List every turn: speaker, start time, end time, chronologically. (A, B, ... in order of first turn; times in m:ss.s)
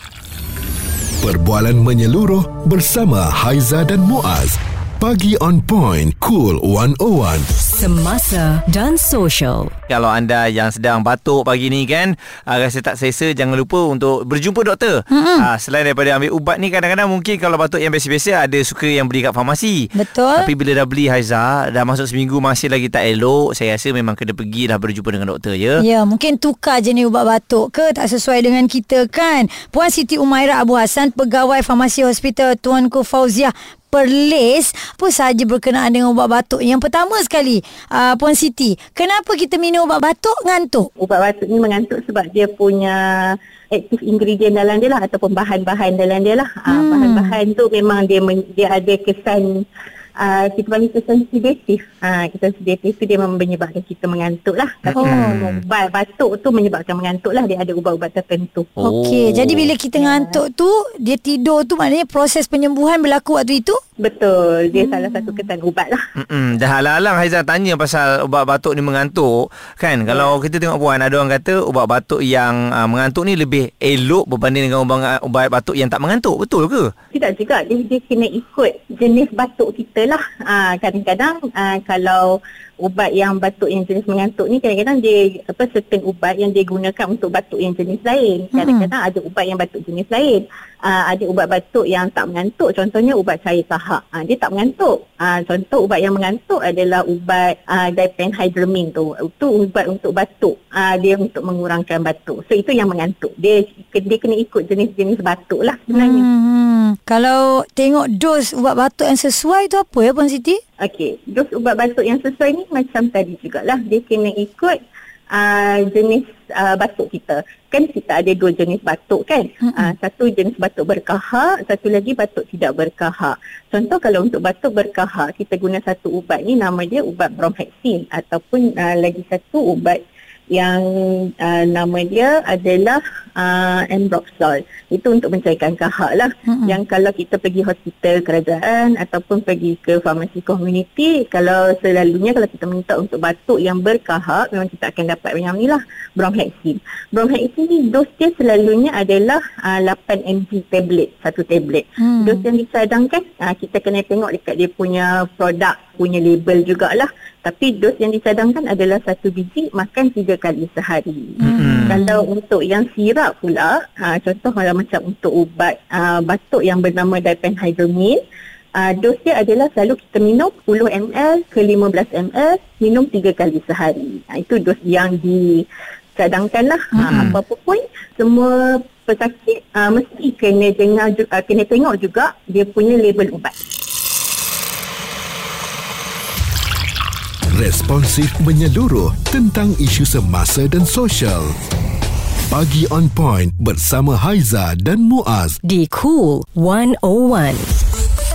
0:01.2-0:07.5 A
0:07.6-0:09.7 B
0:09.9-0:25.8 C
0:15.1-0:15.5 D
0:19.9-0:20.5 D
0:25.8-0:40.9 D
0:41.0-0:49.6 E
0:46.7-0:47.4 D
0:50.2-0:58.8 E
0:54.8-0:55.6 C
0:55.0-0:55.3 D
0:58.8-0:59.7 C
0:58.8-1:03.8 D
0:59.9-1:00.4 E
1:04.0-1:06.0 E
1:04.7-1:05.4 D
1:06.2-1:16.9 C
1:10.1-1:10.3 E
1:17.1-1:46.3 E
1:28.5-1:28.9 D
1:45.9-1:50.6 D
1:50.8-1:54.8 E
1:55.3-2:48.2 E
1:59.6-1:59.9 D
2:16.5-2:16.8 D
2:32.0-2:32.4 D
2:41.4-2:42.0 C
2:41.4-2:42.2 D
2:48.8-3:03.5 E
2:57.0-2:57.4 C
2:57.0-2:57.3 D
3:07.5-3:11.6 A
3:12.5-3:15.6 A
3:15.6-3:17.7 B